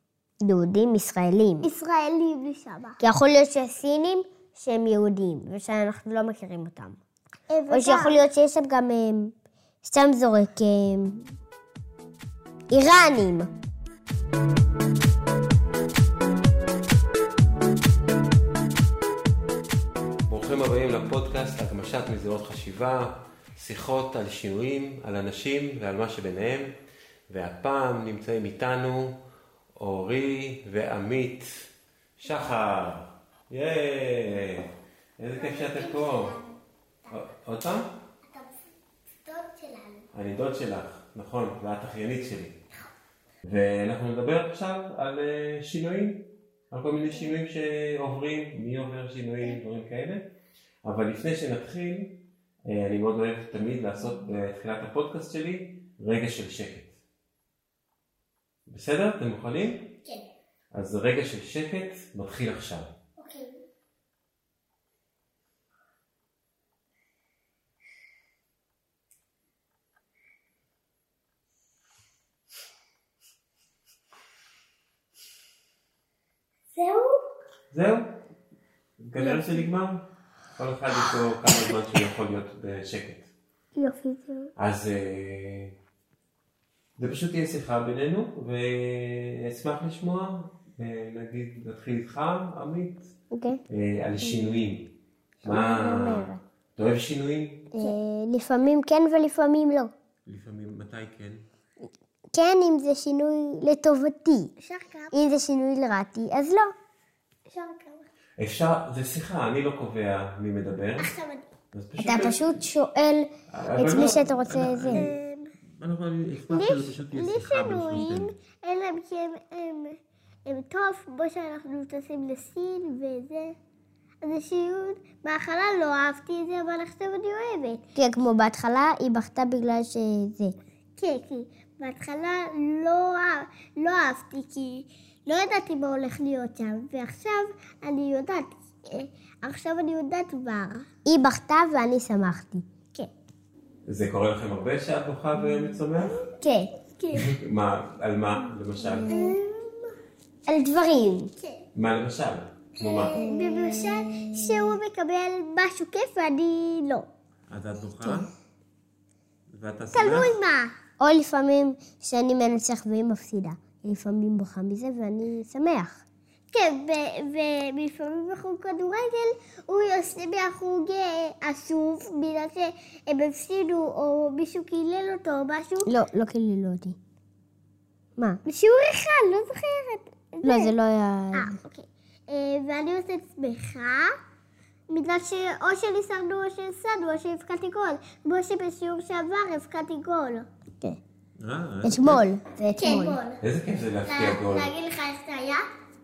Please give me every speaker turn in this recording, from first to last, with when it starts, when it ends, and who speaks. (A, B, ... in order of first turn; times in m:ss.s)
0:00.4-0:01.7 A
0:01.6-0:03.0 B
0:03.0-0:07.0 A
0:07.5-0:08.2 B
0:07.7-0:09.3 A
0:09.8-0:11.3 A
0:12.7-0:13.5 A
0:20.3-0:26.7 C
0:27.3-0:29.2 C
0:29.8-0:31.7 C
0:32.2-0:36.4 C
0:35.4-0:36.5 B
0:37.1-0:37.9 C
0:38.2-0:38.5 B
0:39.2-0:40.1 B
0:40.1-0:42.6 C
0:43.4-0:50.3 C
0:50.8-0:56.9 C
0:58.7-1:00.0 C
1:00.7-1:02.9 C
1:03.2-1:03.6 B
1:16.8-1:17.2 B
1:17.7-1:18.2 C
1:19.0-1:20.0 C
1:19.2-1:19.6 B
1:20.6-1:23.3 C
1:23.8-1:24.5 B
1:24.6-1:25.7 C
1:27.0-1:33.1 C
1:33.3-1:33.6 A
1:33.7-1:37.7 C
1:35.4-1:36.4 A
1:37.7-1:39.9 A
1:40.3-1:41.4 C
1:42.3-1:44.5 A
1:44.6-1:45.2 B
1:45.1-1:46.7 A
1:47.5-1:48.1 B
1:48.4-1:51.1 C
1:51.0-1:51.5 B
1:51.7-1:52.6 C
1:52.0-1:55.1 A
1:53.5-1:55.1 C
1:54.9-1:55.5 B
1:55.8-1:58.3 C
1:56.5-2:03.6 B
2:04.2-2:07.8 B
2:08.0-2:10.6 A
2:11.0-2:20.9 B
2:21.0-2:22.6 A
2:23.9-2:26.2 C
2:26.4-2:26.7 A
2:27.0-2:27.3 B
2:27.1-2:29.2 C
2:28.8-2:29.4 A
2:29.1-2:29.9 B
2:30.5-2:31.3 A
2:31.4-2:31.6 B
2:31.8-2:33.2 C
2:32.8-2:37.1 B
2:33.2-2:34.8 A
2:37.5-2:38.3 C
2:39.5-2:40.3 C
2:39.9-2:40.7 B
2:41.0-2:46.0 A
2:46.5-2:55.9 B
2:55.9-2:57.0 A
2:58.5-3:00.7 B
3:00.4-3:01.6 A
3:01.3-3:04.1 B
3:04.9-3:10.5 B
3:11.4-3:12.2 C
3:11.8-3:13.2 A
3:12.8-3:13.4 B
3:13.4-3:14.7 C
3:14.1-3:15.6 B